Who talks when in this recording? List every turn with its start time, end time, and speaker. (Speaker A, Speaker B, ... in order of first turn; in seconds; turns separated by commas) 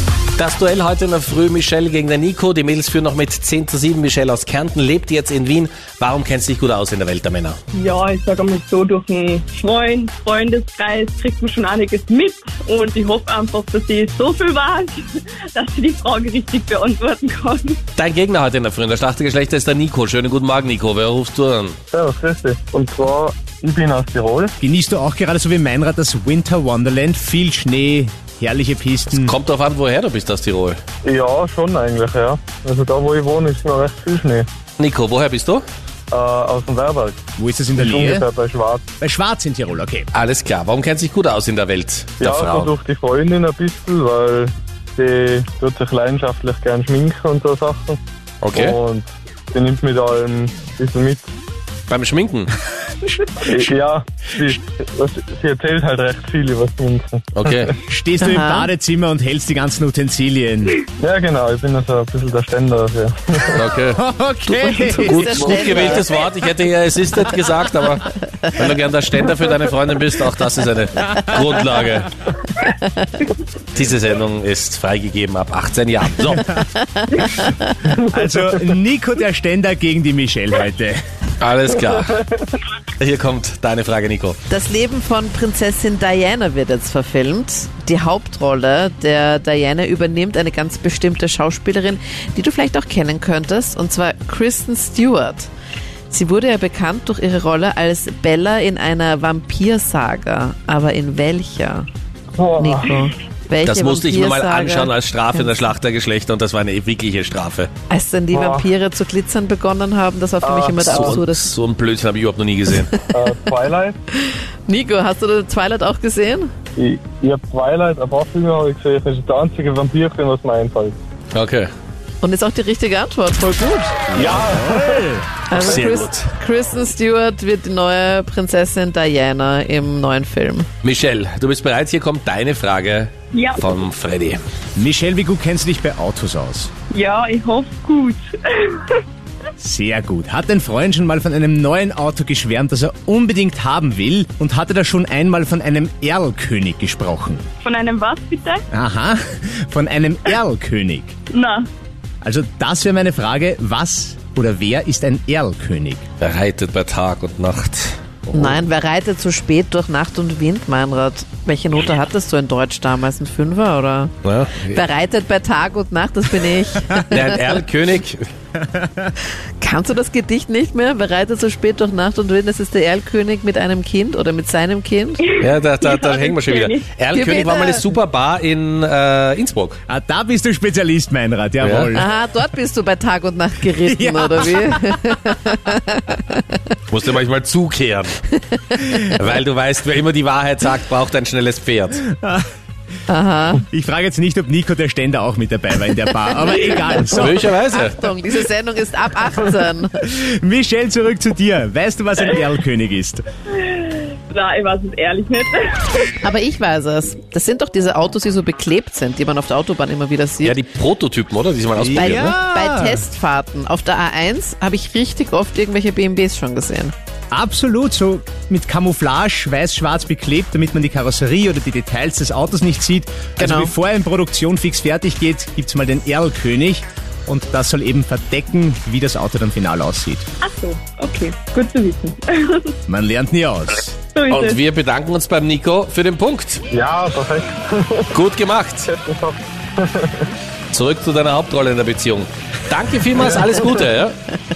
Speaker A: 0.3-7.6, Speaker B: 7.7-17.8, Speaker A: 17.9-21.8, Speaker C: 21.9-24.5, Speaker D: 24.6-29.4, Speaker A: 29.1-30.8, Speaker C: 31.0-34.5, Speaker A: 34.8-35.6, Speaker C: 36.1-37.2, Speaker D: 37.4-38.2, Speaker C: 37.8-38.8, Speaker D: 39.0-40.1, Speaker A: 40.1-42.7, Speaker C: 42.2-48.0, Speaker A: 48.4-48.8, Speaker C: 48.5-51.2, Speaker A: 51.9-52.5, Speaker C: 53.4-57.2, Speaker A: 57.3-57.7, Speaker D: 57.9-60.8, Speaker E: 58.2-58.7, Speaker C: 61.0-63.6, Speaker A: 63.5-72.2, Speaker D: 63.9-65.7, Speaker E: 64.8-66.1, Speaker C: 65.5-66.0, Speaker E: 72.6-73.2, Speaker A: 73.7-76.6, Speaker E: 77.0-77.7, Speaker C: 77.9-78.3, Speaker D: 78.1-81.0, Speaker A: 81.4-82.2, Speaker C: 82.1-82.4, Speaker A: 83.0-84.3, Speaker E: 84.5-95.5, Speaker E: 96.1-101.9, Speaker C: 102.4-103.0, Speaker E: 102.6-105.5, Speaker A: 103.6-107.7, Speaker E: 107.9-111.5, Speaker C: 108.3-108.7, Speaker C: 110.4-111.2, Speaker A: 110.8-112.9, Speaker C: 113.1-114.0, Speaker E: 114.2-116.5, Speaker C: 116.8-121.0, Speaker A: 121.3-121.7, Speaker E: 122.2-124.1, Speaker D: 124.1-125.2, Speaker C: 124.1-125.0, Speaker E: 125.5-130.7, Speaker A: 125.5-126.3, Speaker A: 130.8-134.4, Speaker B: 133.3-133.6, Speaker D: 134.8-136.7, Speaker B: 136.9-139.0, Speaker D: 139.6-147.4, Speaker B: 147.6-148.6, Speaker D: 148.7-151.1, Speaker B: 151.3-151.7, Speaker D: 152.2-156.0, Speaker A: 156.2-158.3, Speaker E: 158.3-167.5, Speaker A: 164.2-164.8, Speaker A: 167.1-168.2, Speaker D: 168.6-169.1, Speaker E: 169.6-175.3, Speaker B: 175.4-176.8, Speaker A: 175.4-179.8, Speaker E: 177.1-177.8, Speaker D: 179.9-182.1, Speaker A: 181.6-181.9, Speaker E: 181.9-186.7, Speaker D: 183.9-185.0, Speaker A: 186.9-188.3, Speaker E: 188.5-189.1, Speaker A: 189.1-192.0, Speaker D: 192.1-192.4, Speaker E: 193.1-193.6, Speaker D: 193.7-197.5, Speaker E: 196.3-200.0, Speaker A: 197.1-198.0, Speaker D: 200.0-203.2, Speaker B: 203.7-206.1, Speaker E: 206.2-210.6, Speaker A: 210.4-212.3, Speaker D: 211.8-213.0, Speaker E: 211.9-216.9, Speaker D: 217.3-230.2, Speaker E: 223.4-223.7, Speaker B: 230.4-232.7, Speaker D: 232.9-233.9, Speaker B: 234.1-234.6, Speaker A: 234.3-236.6, Speaker C: 236.7-238.1, Speaker A: 238.1-238.9, Speaker C: 238.8-240.2, Speaker A: 240.7-244.2, Speaker C: 243.2-243.5